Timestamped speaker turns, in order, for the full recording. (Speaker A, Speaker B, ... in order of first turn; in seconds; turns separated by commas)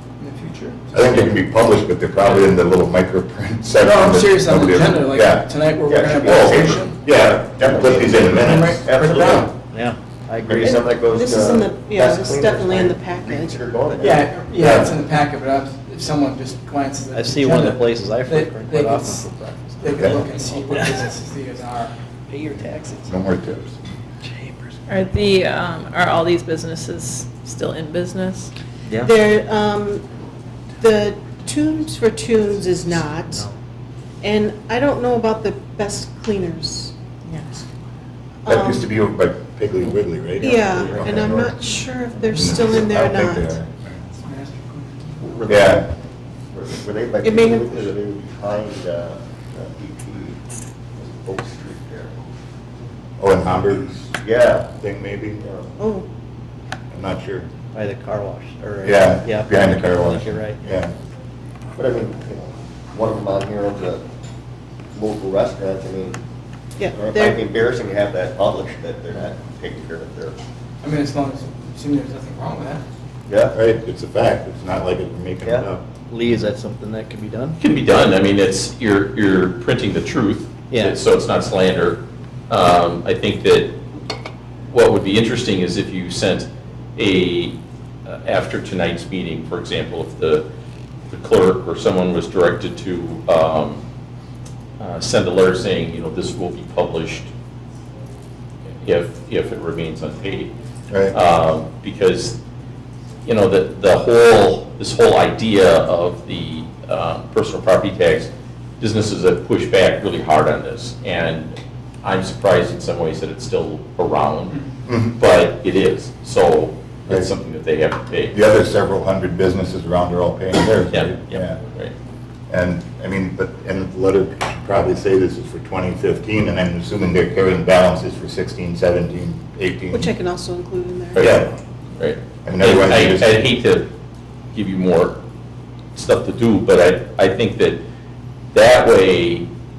Speaker A: 0.2-1.3, Speaker B: 0.9-5.5, Speaker A: 3.8-7.0, Speaker C: 5.8-9.5, Speaker B: 7.0-8.8, Speaker A: 8.2-9.6, Speaker D: 9.7-10.7, Speaker C: 10.4-14.3, Speaker E: 10.7-14.2, Speaker A: 14.0-21.9, Speaker B: 14.6-14.9, Speaker D: 17.1-20.0, Speaker B: 19.9-20.2, Speaker D: 22.3-23.0, Speaker B: 23.1-23.8, Speaker F: 24.9-28.5, Speaker E: 29.0-30.0, Speaker E: 30.8-33.5, Speaker E: 34.2-36.9, Speaker E: 38.4-38.9, Speaker B: 38.5-41.5, Speaker E: 40.4-43.6, Speaker B: 42.3-44.0, Speaker A: 44.2-45.2, Speaker C: 45.2-45.9, Speaker B: 45.5-45.9, Speaker C: 46.5-50.4, Speaker E: 47.2-47.8, Speaker C: 50.9-52.2, Speaker B: 53.2-54.1, Speaker C: 54.0-54.7, Speaker B: 54.7-55.4, Speaker C: 55.4-55.8, Speaker E: 55.8-56.0, Speaker B: 56.9-57.5, Speaker D: 57.7-60.6, Speaker B: 58.8-60.9, Speaker C: 61.7-64.0, Speaker C: 64.9-66.2, Speaker E: 66.8-67.4, Speaker C: 66.9-70.4, Speaker A: 70.8-72.8, Speaker C: 73.3-73.5, Speaker B: 73.5-76.5, Speaker D: 76.1-77.6, Speaker G: 77.6-83.8, Speaker D: 80.7-81.0, Speaker G: 84.7-90.5, Speaker G: 91.1-93.8, Speaker G: 94.8-97.3, Speaker G: 98.8-100.5, Speaker G: 101.1-102.4, Speaker G: 103.2-114.6, Speaker B: 114.8-115.3, Speaker G: 115.2-118.4, Speaker B: 118.3-121.6, Speaker G: 120.9-121.9, Speaker B: 122.5-130.1, Speaker E: 129.9-131.3, Speaker G: 131.1-133.9, Speaker B: 131.2-131.5, Speaker B: 132.4-133.4, Speaker G: 134.5-135.2, Speaker G: 135.9-137.8, Speaker G: 138.5-139.5